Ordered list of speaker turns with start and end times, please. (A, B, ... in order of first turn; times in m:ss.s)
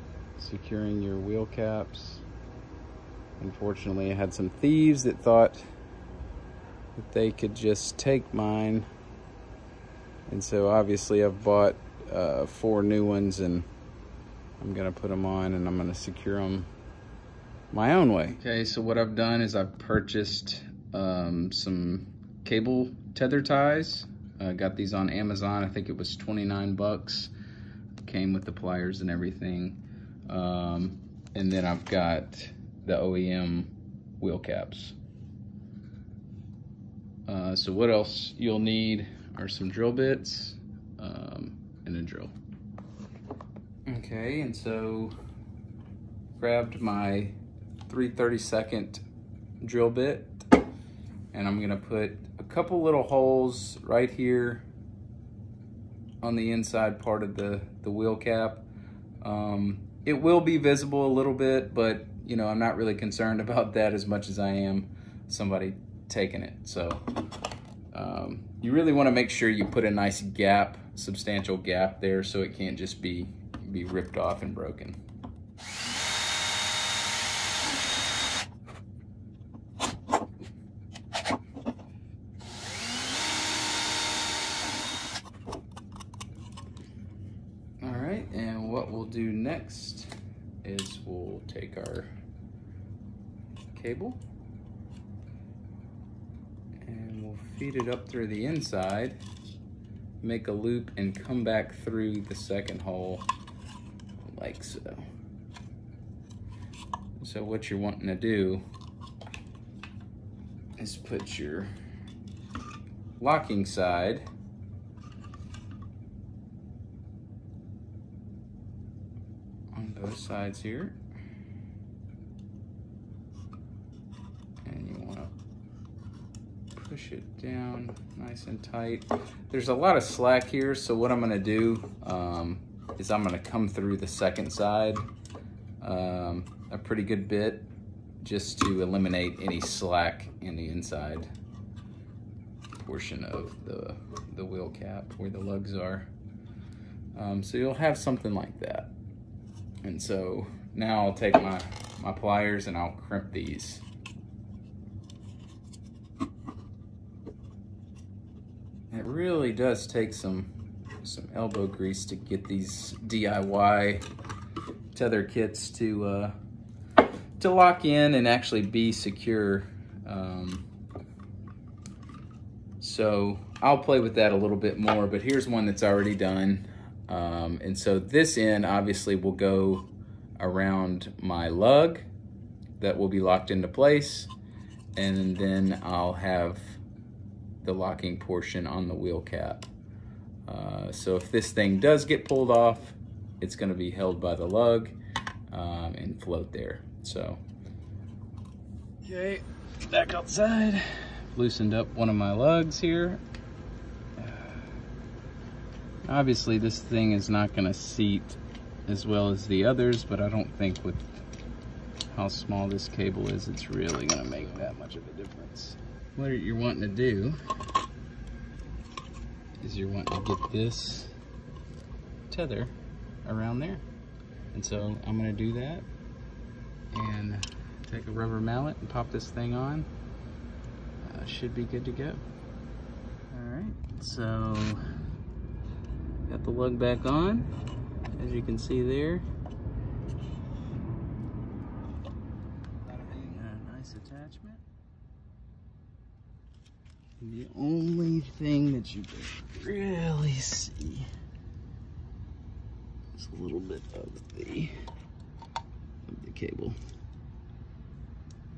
0:00.4-0:02.2 A
0:03.4-0:05.6 A
0:07.0-0:08.9 A
0:10.3-0:13.7 A
0:14.6-0:16.7 A
0:17.7-0:27.3 A
0:28.0-0:35.0 A
0:37.3-0:42.3 A
0:43.9-0:45.2 A
0:46.4-0:49.0 A
0:49.6-0:50.5 A
0:51.3-0:54.6 A
0:56.2-0:58.6 A
0:59.2-1:07.0 A
1:07.9-1:15.0 A
1:27.8-1:30.1 A
1:30.6-1:32.1 A
1:33.7-1:34.2 A
1:36.8-1:39.2 A
1:40.2-1:43.3 A
1:44.2-1:45.1 A
1:47.2-1:48.6 A
1:50.8-1:51.7 A
1:53.2-1:54.3 A
1:59.7-2:01.0 A
2:04.6-2:05.3 A
2:06.7-2:15.1 A
2:15.8-2:17.7 A
2:18.2-2:21.3 A
2:22.7-2:26.1 A
2:27.1-2:28.9 A
2:29.8-2:33.8 A
2:38.9-2:44.0 A
2:44.9-2:46.3 A
2:47.4-2:50.6 A
2:52.8-3:02.0 A
3:02.8-3:04.3 A
3:05.0-3:06.8 A
3:07.6-3:09.7 A
3:10.4-3:14.9 A
3:15.5-3:17.4 A
3:19.0-3:23.2 A
3:24.2-3:24.7 A
3:26.0-3:31.1 A
3:32.1-3:37.4 A
3:39.6-3:41.1 A
3:42.3-3:42.7 A
3:43.2-3:43.8 A
3:44.5-3:45.9 A
3:46.9-3:49.9 A
3:51.0-3:52.2 A
3:53.3-3:54.8 A
3:56.2-3:57.5 A
3:58.1-3:59.2 A
4:02.8-4:04.6 A
4:07.2-4:11.1 A
4:13.1-4:14.7 A
4:16.0-4:16.8 A